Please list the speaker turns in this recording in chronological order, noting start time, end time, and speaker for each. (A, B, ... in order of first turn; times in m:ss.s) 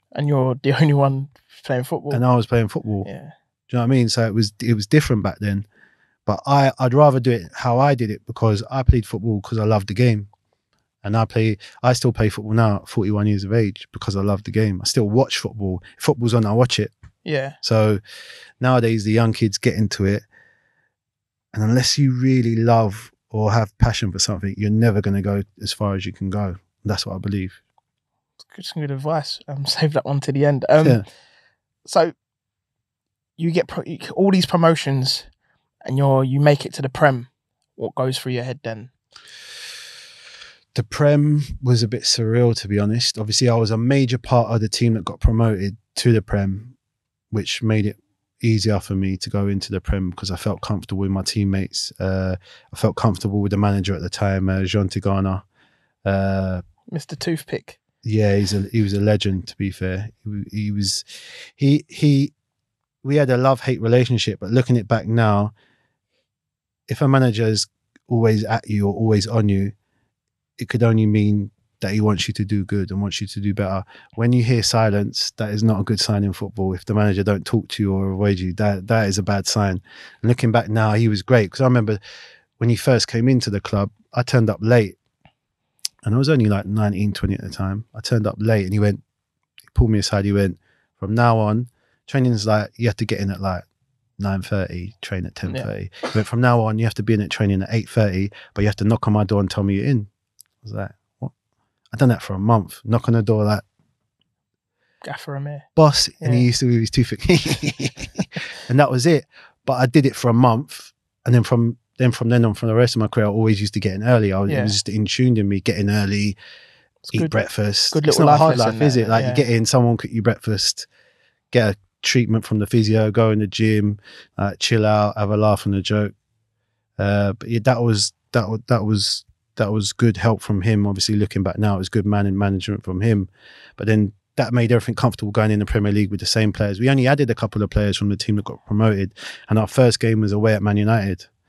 0:00.2-0:02.2 A
0:02.1-0:03.1 B
0:03.0-0:03.3 A
0:03.7-0:05.7 B
0:06.3-0:10.3 B
0:11.0-0:16.9 B
0:17.2-0:17.6 A
0:17.6-0:18.0 B
0:18.6-0:20.3 B
0:21.5-0:27.6 B
0:28.5-0:31.0 A
0:31.8-0:32.1 A
0:33.4-0:35.3 A
0:35.8-0:38.9 A
0:40.7-0:46.8 B
0:47.3-0:55.4 B
0:56.0-0:56.6 B
0:56.9-0:57.8 A
0:58.0-1:02.3 B
1:03.0-1:05.5 B
1:06.9-1:09.7 B
1:10.6-1:22.0 B
1:22.6-1:25.0 B
1:26.0-1:29.0 B
1:29.7-1:33.7 B
1:34.2-1:40.1 B
1:40.6-1:41.3 B
1:41.9-1:43.6 B
1:45.0-1:45.6 A
1:45.8-1:56.4 B
1:46.2-1:46.5 A
1:54.5-1:54.8 A
1:57.0-1:57.4 A
1:57.1-2:00.9 B
1:57.9-1:59.4 A
2:01.5-2:06.1 B
2:07.0-2:21.3 B